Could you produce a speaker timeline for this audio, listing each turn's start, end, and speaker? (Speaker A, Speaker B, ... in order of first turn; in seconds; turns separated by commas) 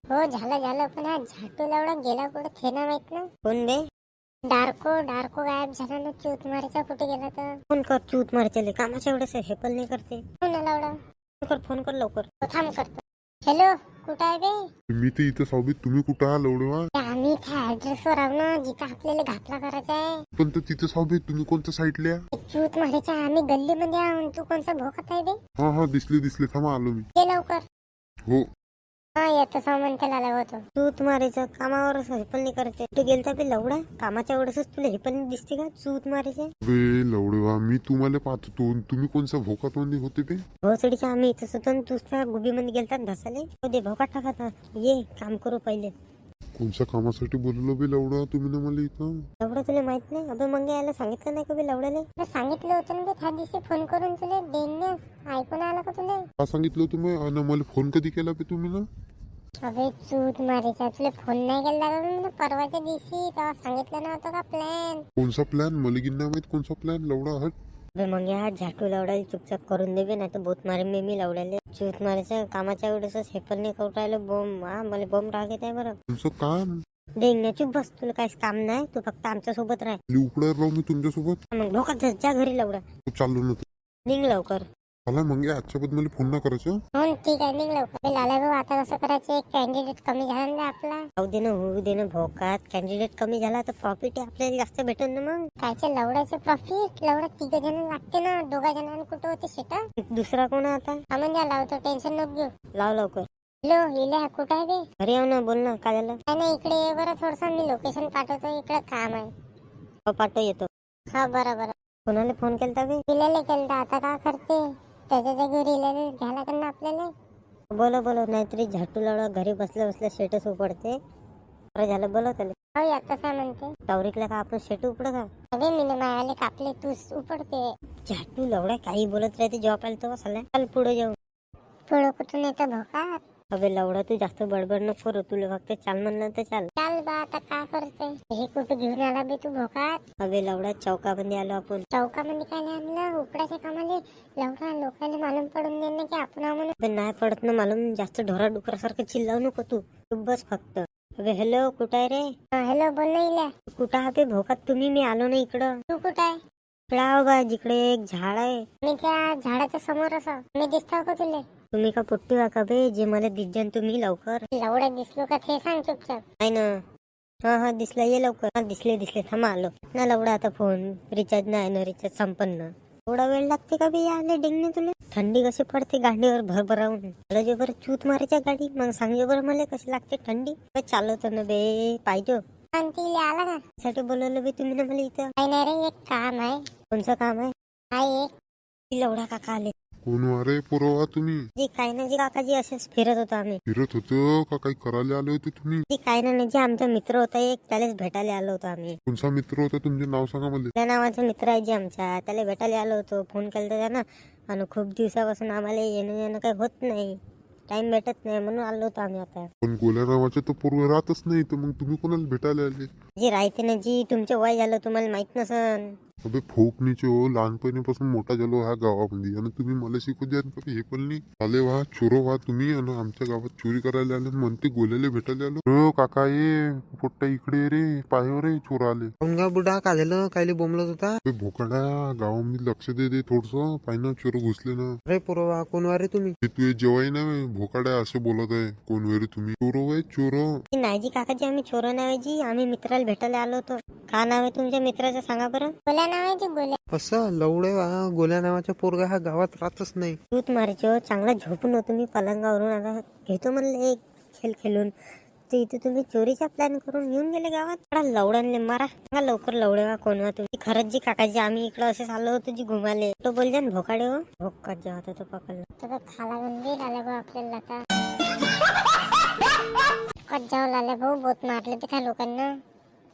Speaker A: 0.1-3.3, Speaker B: 3.4-3.8, Speaker A: 4.5-7.5, Speaker B: 7.7-10.2, Speaker A: 10.4-10.9, Speaker B: 11.4-12.3, Speaker A: 12.4-14.6, Speaker C: 14.9-16.9, Speaker A: 16.9-20.1, Speaker C: 20.4-22.2, Speaker A: 22.3-25.4, Speaker C: 25.6-27.1, Speaker A: 27.2-27.6, Speaker A: 29.2-30.6, Speaker B: 30.8-36.5, Speaker C: 36.6-40.4, Speaker B: 40.6-45.9, Speaker C: 46.6-49.2, Speaker B: 49.4-52.1, Speaker A: 52.2-56.2, Speaker C: 56.4-58.9, Speaker A: 59.6-65.0, Speaker C: 65.2-67.5, Speaker B: 68.0-76.0, Speaker C: 76.1-76.8, Speaker B: 77.2-80.0, Speaker C: 80.1-81.4, Speaker B: 81.5-82.8, Speaker C: 83.1-83.7, Speaker B: 84.1-84.6, Speaker C: 85.1-86.8, Speaker A: 87.0-91.0, Speaker B: 91.2-95.4, Speaker A: 95.6-99.8, Speaker B: 100.1-101.0, Speaker A: 101.1-102.5, Speaker B: 102.8-103.3, Speaker A: 103.6-104.8, Speaker B: 105.0-106.2, Speaker A: 106.3-109.3, Speaker B: 110.1-110.7, Speaker A: 111.1-111.7, Speaker B: 112.1-113.0, Speaker A: 113.1-117.1, Speaker B: 117.7-120.9, Speaker B: 121.7-122.5, Speaker A: 122.7-123.7, Speaker B: 123.9-125.3, Speaker A: 125.5-127.6, Speaker B: 128.1-131.2, Speaker A: 131.9-133.1, Speaker B: 133.5-136.7, Speaker A: 136.8-140.0, Speaker B: 140.2-141.8, Speaker A: 141.9-146.7, Speaker B: 146.8-152.2, Speaker A: 152.6-153.5, Speaker B: 153.7-155.7, Speaker A: 155.9-156.3, Speaker B: 156.9-158.6, Speaker A: 158.8-161.4, Speaker B: 161.7-164.4, Speaker A: 164.6-166.2, Speaker B: 166.4-166.7, Speaker B: 167.5-182.4, Speaker A: 182.7-183.6, Speaker B: 183.8-185.3, Speaker A: 185.4-186.6, Speaker B: 186.9-187.5, Speaker A: 187.9-188.3, Speaker B: 188.9-189.7, Speaker C: 190.1-191.4, Speaker B: 191.6-193.6, Speaker C: 193.7-195.8, Speaker B: 195.9-198.9, Speaker C: 199.1-200.7, Speaker B: 200.8-207.2, Speaker B: 207.7-209.5, Speaker C: 209.6-212.9, Speaker B: 213.2-215.9, Speaker C: 216.2-229.1, Speaker D: 229.2-231.2, Speaker C: 231.2-234.9, Speaker D: 235.1-236.3, Speaker C: 236.4-240.6, Speaker B: 240.7-245.7, Speaker A: 245.9-246.8, Speaker D: 246.9-250.2, Speaker B: 250.3-254.9, Speaker B: 255.5-265.7, Speaker A: 265.8-267.8, Speaker A: 270.3-272.5